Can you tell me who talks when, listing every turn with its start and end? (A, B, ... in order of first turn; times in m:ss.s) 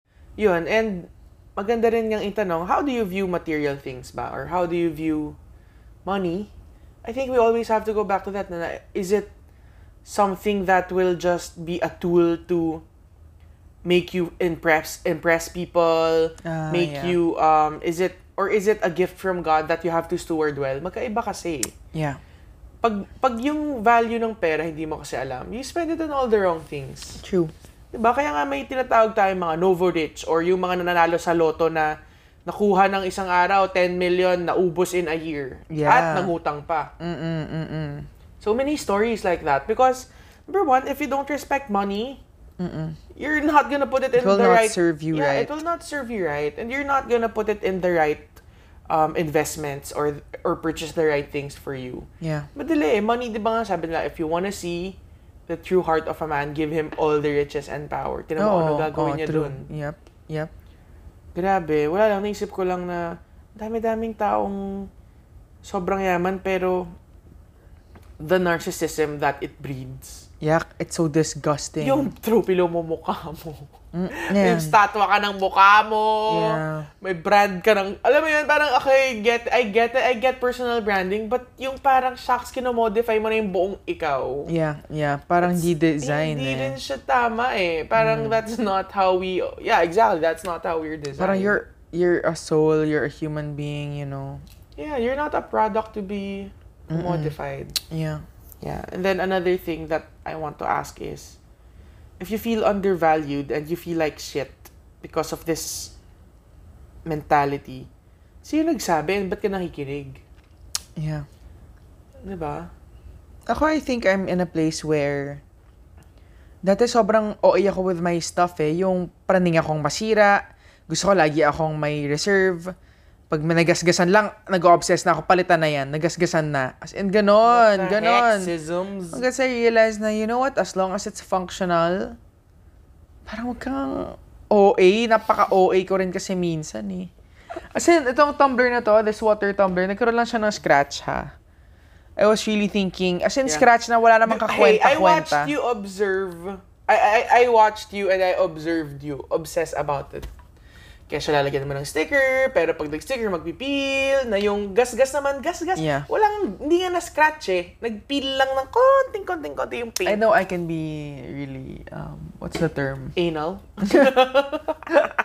0:00.4-0:05.4 A
0:06.0-0:06.5 A
0:07.0-0:09.3 A
0:10.0-0:12.8 A
0:13.8-0:21.7 A
0:16.4-0:17.2 B
0:21.9-0:22.2 B
0:22.8-0:27.2 A
0:27.2-0:27.5 B
0:27.9-0:31.9 A
0:32.4-0:36.9 A
0:35.7-0:36.3 B
0:37.0-0:38.1 B
0:38.4-0:42.2 A
0:42.6-0:43.0 B
0:43.1-0:59.7 A
0:44.2-0:45.5 B
0:52.2-0:52.5 B
0:58.4-1:00.5 B
1:01.3-1:04.9 A
1:05.6-1:06.9 A
1:08.2-1:10.3 A
1:10.4-1:12.1 B
1:11.8-1:24.5 A
1:13.9-1:14.7 B
1:16.3-1:16.9 B
1:24.5-1:26.8 B
1:25.4-1:31.6 A
1:27.9-1:28.4 B
1:31.2-1:34.4 B
1:34.8-1:37.8 A
1:36.9-1:38.2 B
1:38.6-1:41.4 A
1:42.2-1:45.9 A
1:47.0-1:47.9 A
1:48.4-1:50.2 A
1:51.0-1:51.2 B
1:52.2-1:52.7 A
1:53.4-1:55.4 B
1:56.6-2:02.7 B
2:03.3-2:08.5 B
2:07.4-2:09.2 A
2:09.1-2:12.2 B
2:13.2-2:17.1 B
2:17.7-2:21.3 B
2:22.2-2:25.5 B
2:24.2-2:30.3 A
2:31.1-2:40.2 A
2:35.8-2:36.1 B
2:40.0-2:43.2 B
2:43.2-2:45.0 A
2:43.8-2:44.2 B